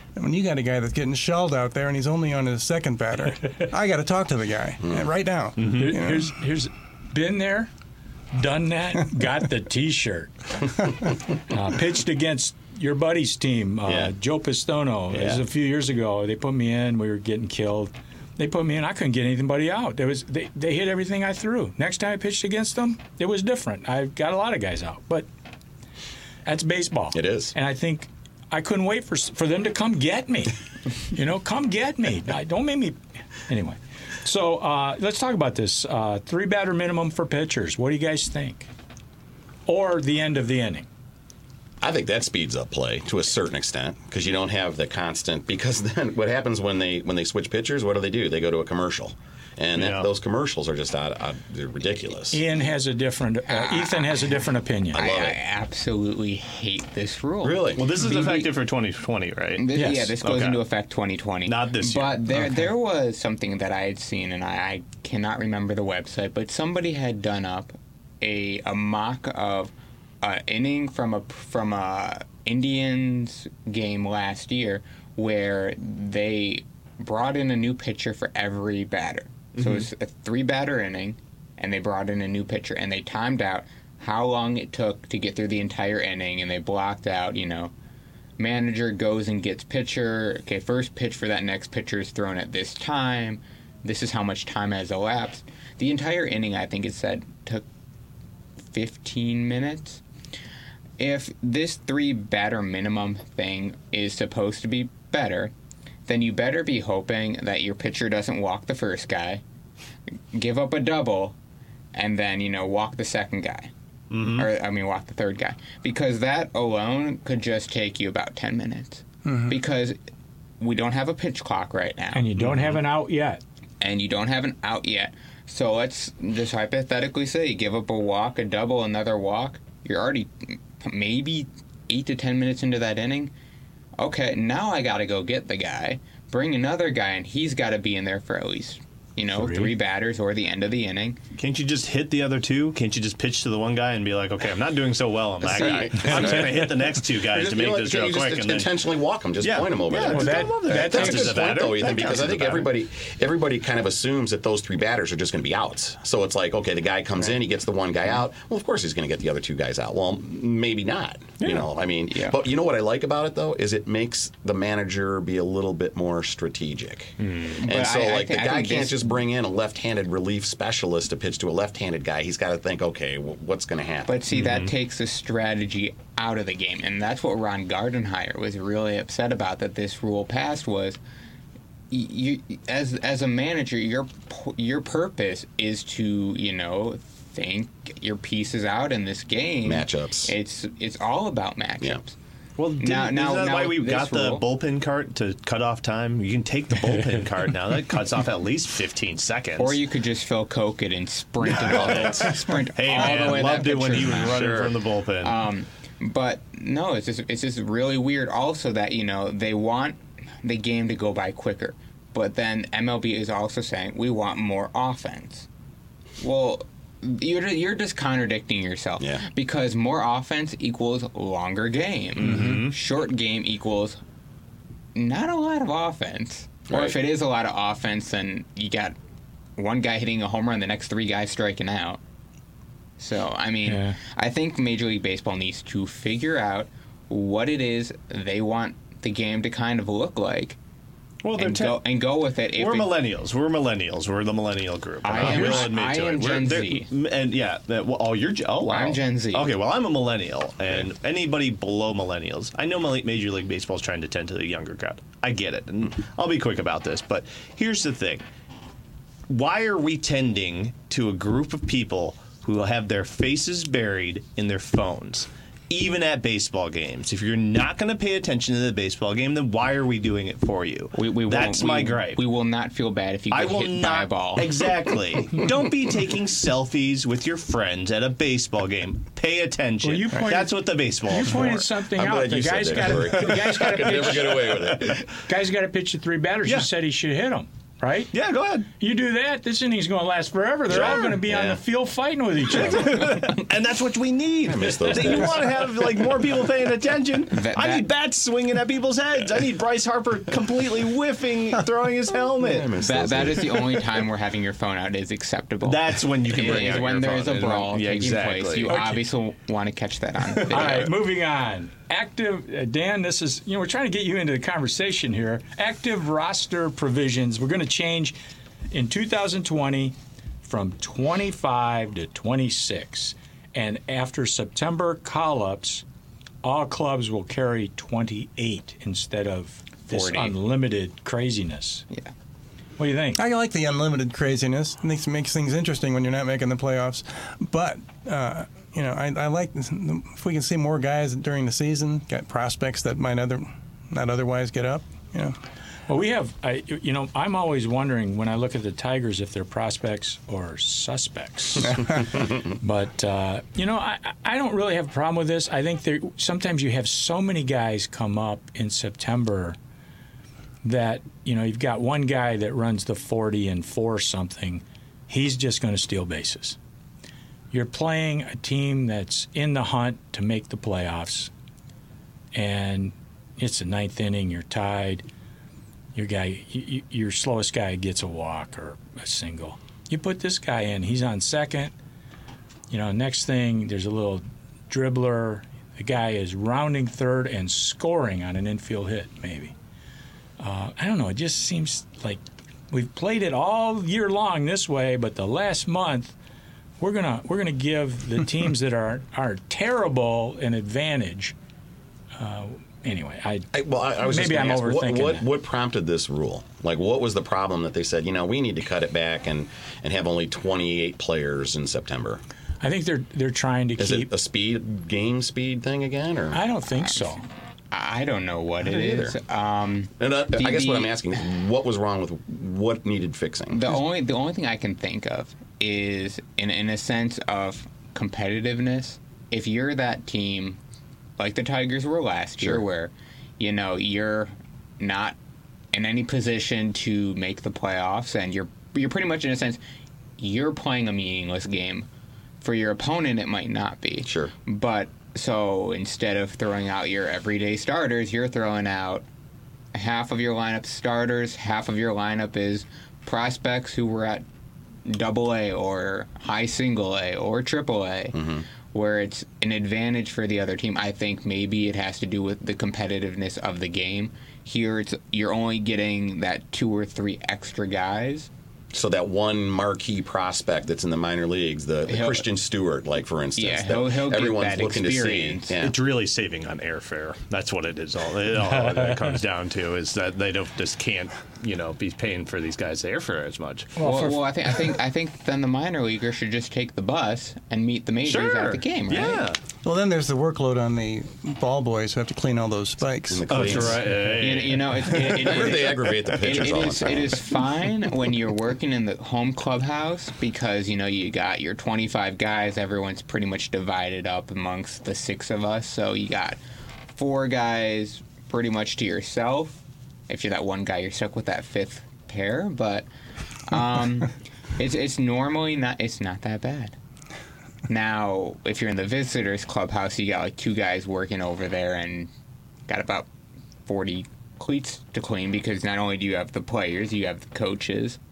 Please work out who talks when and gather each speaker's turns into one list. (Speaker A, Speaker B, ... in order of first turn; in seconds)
Speaker A: 0.1-6.3, 119.2-119.5, 333.2-345.4, 489.6-494.0
Speaker B: 5.6-7.7, 8.3-10.4, 11.5-25.3, 26.4-30.5, 31.1-38.7, 39.7-40.9, 52.3-55.0, 59.7-60.1, 122.1-123.4, 139.3-139.7, 150.1-151.4, 233.7-234.0, 279.8-288.1, 288.8-293.3, 308.7-308.9, 310.5-318.2, 318.7-325.8, 326.4-331.9, 332.8-333.2, 345.9-359.6, 360.6-366.6, 367.5-371.3, 372.3-375.0, 375.9-381.7, 382.7-389.5, 390.4-396.1, 396.8-401.3, 402.2-403.5, 404.0-405.2, 412.6-414.1, 416.3-417.2, 483.8-484.2
Speaker C: 13.8-14.1, 15.1-15.4, 27.1-27.5, 41.8-52.4, 54.9-55.4, 57.4-57.8, 145.4-174.2, 189.6-190.3, 201.6-202.2, 204.2-204.7, 219.0-219.2, 226.7-226.9, 281.8-285.1, 290.7-291.6, 294.4-295.5, 302.4-303.8, 403.5-412.2, 413.8-416.4, 418.6-419.2, 420.0-423.8, 444.0-444.3, 458.1-458.4, 468.7-475.7, 493.1-493.9, 494.9-497.3
Speaker D: 49.8-50.1, 57.8-59.6, 60.2-60.6, 61.5-62.2, 79.6-79.9, 114.1-114.5, 122.4-122.8, 141.4-148.8, 149.4-152.7, 174.3-174.7, 192.6-199.8, 201.5-205.3, 222.2-222.7, 241.2-241.8, 242.5-258.2, 259.3-272.2, 273.3-281.6, 288.1-288.7, 290.7-291.1, 292.5-302.7, 305.6-308.9, 475.6-483.7, 488.0-489.4, 493.3-495.1
Speaker E: 53.5-54.3, 54.9-58.5, 59.6-87.7, 88.4-97.6, 98.7-100.0, 101.0-105.5, 106.1-109.4, 110.3-111.3, 111.9-113.7, 114.2-120.0, 120.6-122.3, 123.8-133.3, 134.0-141.2, 145.5-146.5, 162.1-162.3, 167.4-169.2, 174.1-181.0, 181.9-192.1, 192.8-194.4, 199.6-215.5, 216.2-224.0, 224.9-228.9, 229.6-232.0, 233.0-240.6, 241.3-242.9, 245.0-246.9, 248.7-249.5, 270.9-274.5, 297.3-297.9, 302.8-310.9, 329.9-330.3, 417.7-420.9, 423.5-430.6, 431.2-435.2, 435.7-439.6, 440.2-441.9, 442.4-449.0, 449.7-454.2, 454.8-458.2, 458.7-468.3, 471.9-472.2, 473.4-475.6, 483.8-489.3, 494.2-506.4, 506.9-509.6, 510.1-512.9, 513.5-516.7, 517.7-522.1, 522.7-523.1, 523.6-528.0